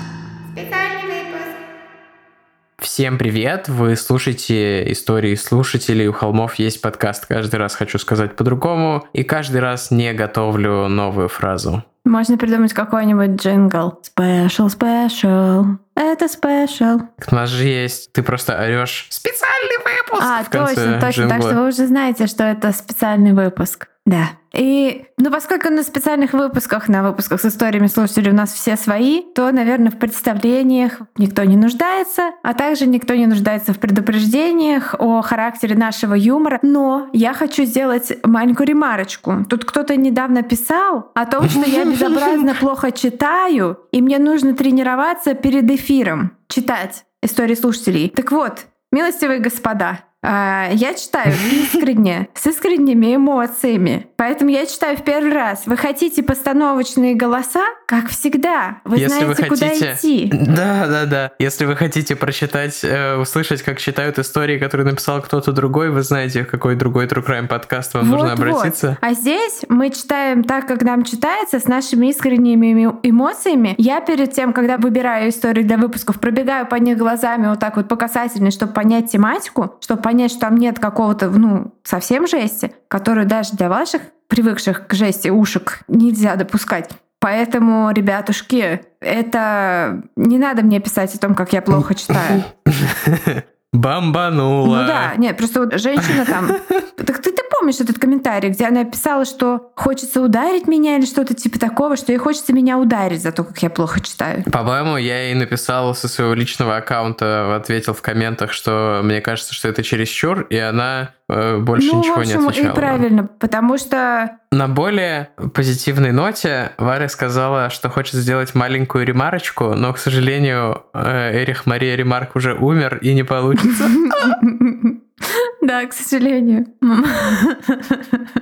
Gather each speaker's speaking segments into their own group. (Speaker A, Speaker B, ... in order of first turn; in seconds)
Speaker A: 0.5-1.6, 12.1-17.1, 20.2-60.4, 68.0-92.4, 94.6-104.5, 111.8-114.3, 123.6-128.3
Speaker B: 2.8-11.8, 17.2-21.6, 41.5-42.2, 59.0-69.0, 92.1-95.1, 96.0-96.8, 104.5-113.0, 114.5-124.4